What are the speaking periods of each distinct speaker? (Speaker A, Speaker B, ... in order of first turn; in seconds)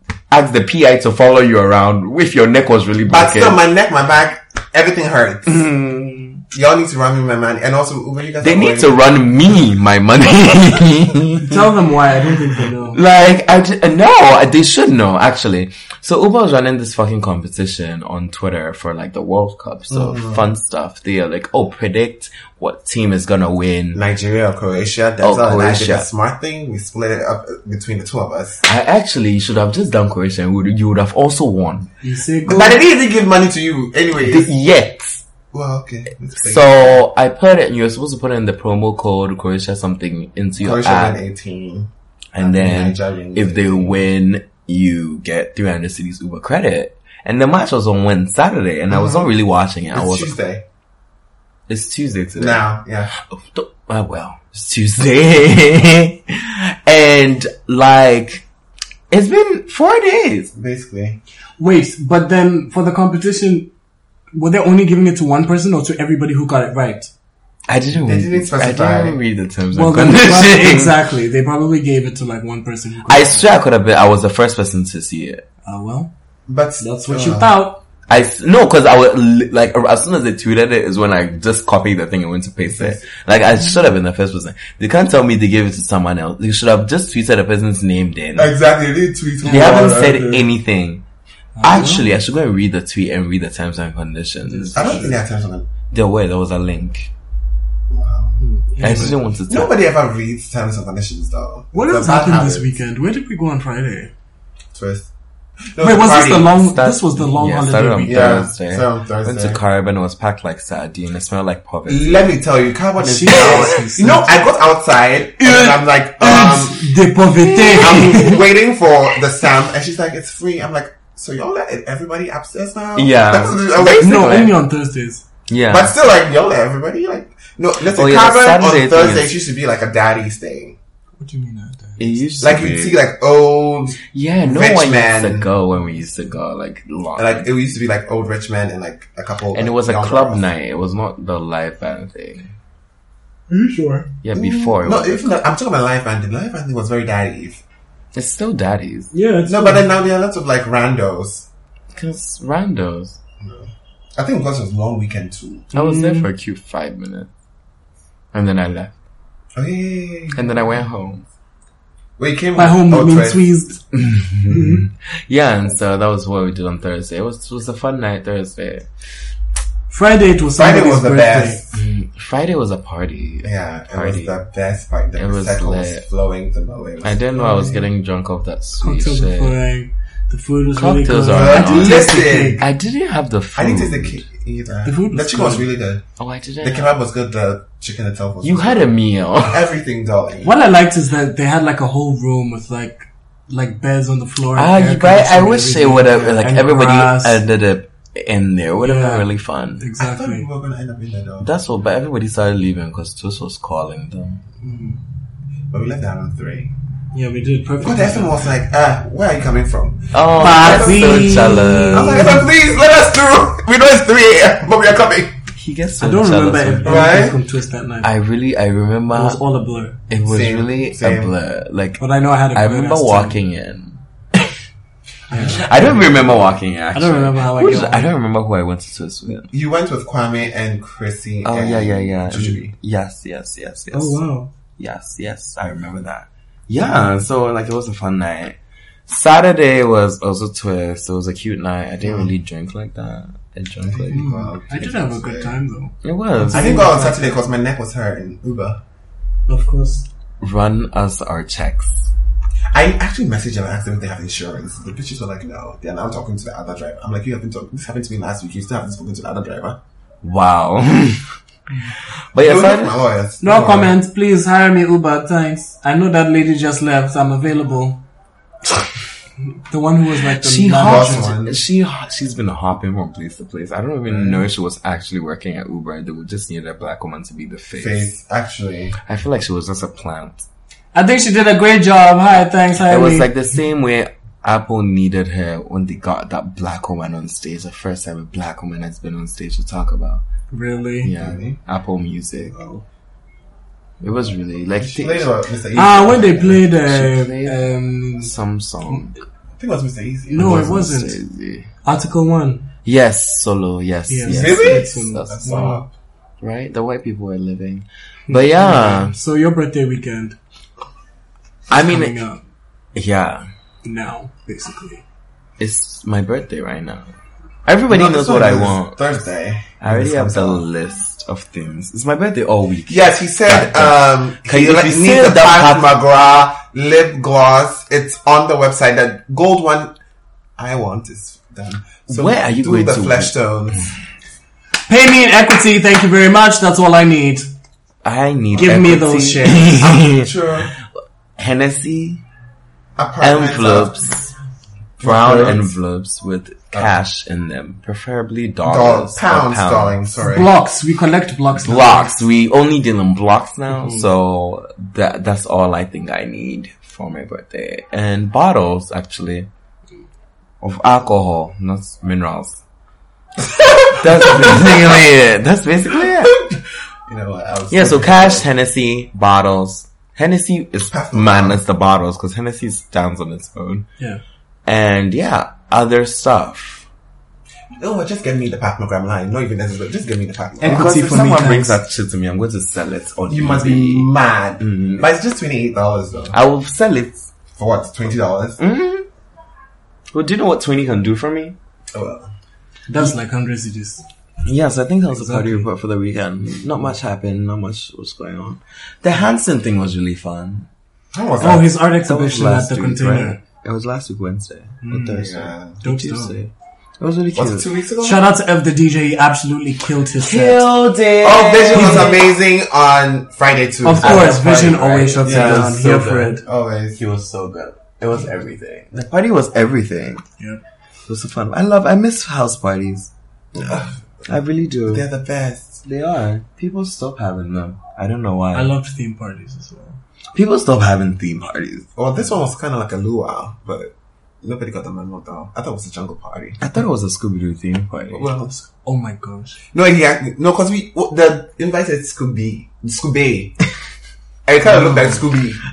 Speaker A: 0.3-3.6, 5.5-6.4, 8.4-11.7, 12.9-24.0, 25.2-26.1, 28.6-31.9, 32.5-32.8, 34.2-35.2, 36.4-41.2, 42.3-50.3, 51.7-52.6, 53.2-58.4, 59.1-60.5, 67.7-71.0, 73.1-75.4, 78.1-88.5, 89.4-91.0, 91.6-95.2, 95.9-97.1, 98.8-99.7, 106.5-112.3, 113.3-113.8, 117.4-118.4, 122.9-124.6, 125.5-125.9, 127.9-129.3, 132.0-133.0, 134.1-137.5, 139.5-142.5, 144.2-145.3, 148.1-149.1, 151.9-153.2, 155.7-157.3, 158.3-158.9, 160.3-161.3, 163.9-168.9, 171.7-174.3, 175.1-176.0, 177.0-179.6, 180.7-182.0, 182.6-184.2, 186.2-187.0, 188.4-189.7, 194.5-199.8, 201.4-204.4, 210.1-212.4, 215.5-217.2, 218.0-219.4, 220.1-222.0, 222.5-224.5, 225.3-229.5, 231.4-234.2, 234.8-238.6, 239.1-244.2, 246.0-246.9, 250.4-252.1, 260.2-261.3, 262.3-263.0, 270.3-278.1, 279.0-280.4, 282.9-290.2, 291.0-292.6, 294.0-295.3, 296.8-297.6, 298.2-299.1, 300.3-301.7, 302.8-305.8, 306.4-309.1, 311.7-312.2, 312.9-313.4, 315.6-317.1, 317.6-319.0, 319.8-325.9, 332.1-333.3, 338.0-340.7, 341.4-342.2, 343.2-344.3, 345.0-350.1, 351.6-359.5, 360.6-362.6, 363.9-366.3, 367.7-373.9, 374.6-376.9, 380.6-384.1, 384.6-385.0, 386.3-387.3, 388.6-389.1, 390.1-391.6, 394.4-400.7, 402.0-407.6, 410.2-412.3, 414.0-416.4, 416.9-420.2, 421.1-423.1, 424.3-425.1, 425.8-428.7, 430.3-431.9, 436.6-438.3
Speaker B: 3.1-5.7, 6.5-9.0, 19.9-20.4, 23.9-28.6, 32.5-34.5, 35.5-37.0, 40.6-44.0, 48.9-49.3, 49.9-50.6, 52.4-53.1, 60.5-61.2, 68.0-69.2, 76.5-77.6, 82.6-83.0, 88.3-90.5, 94.7-95.7, 97.9-102.7, 104.7-105.1, 105.7-106.5, 108.0-109.6, 111.9-116.9, 117.7-124.3, 125.7-130.8, 132.4-135.5, 137.2-140.4, 144.3-147.6, 149.4-151.4, 153.4-155.7, 159.5-160.7, 162.2-163.4, 170.6-171.8, 173.4-177.2, 181.3-182.7, 183.6-186.0, 186.6-188.9, 189.4-190.5, 196.1-196.4, 200.0-201.5, 205.7-206.7, 207.8-211.2, 211.9-215.4, 216.8-217.4, 220.2-221.3, 225.3-226.4, 229.5-232.7, 242.0-242.3, 243.8-245.6, 246.4-248.8, 252.7-259.8, 262.4-263.9, 270.8-271.6, 274.1-274.4, 277.8-278.9, 291.1-291.6, 292.5-292.8, 294.8-296.6, 299.6-300.8, 304.2-305.9, 317.9-320.6, 322.9-329.9, 330.6-333.9, 339.2-340.7, 343.0-343.9, 345.0-345.7, 348.7-350.5, 363.6-364.7, 367.1-368.5, 370.9-371.6, 377.8-381.5, 383.3-386.4, 387.6-388.6, 391.9-392.3, 401.1-401.7, 405.1-405.8, 407.3-408.2, 411.2-415.8, 416.4-417.0, 423.5-423.9, 424.9-425.8, 431.9-436.6, 438.1-438.7, 439.7-443.6, 444.4-445.6
Speaker C: 11.4-13.0, 32.0-32.7, 61.6-63.7, 64.3-67.1, 69.7-73.5, 75.6-76.1, 76.8-77.8, 89.4-90.0, 91.5-92.0, 94.5-95.2, 98.4-99.2, 101.7-104.1, 105.8-108.4, 113.0-114.3, 115.4-118.4, 124.0-125.2, 131.2-132.2, 143.5-144.1, 149.1-149.9, 155.7-156.3, 162.6-163.8, 164.5-164.8, 169.9-171.6, 177.3-177.8, 178.8-182.7, 184.8-185.7, 190.4-197.4, 198.8-199.3, 199.8-200.5, 204.6-205.0, 207.1-208.4, 210.3-212.5, 216.0-218.1, 219.1-220.0, 222.0-223.4, 225.3-226.1, 226.9-228.1, 233.9-234.5, 244.1-247.4, 249.5-250.0, 263.4-268.0, 269.7-271.3, 280.9-283.3, 290.5-291.1, 295.7-298.3, 300.3-301.2, 301.8-302.7, 304.1-305.9, 308.3-310.4, 311.7-312.4, 313.8-315.0, 334.9-337.5, 338.6-339.5, 350.2-352.2, 353.7-354.1, 380.6-381.8, 392.9-394.0, 395.1-395.7, 401.4-403.4, 404.8-405.2, 405.8-406.3, 408.0-410.6, 411.7-412.2, 413.8-416.4, 428.5-430.0, 438.8-439.6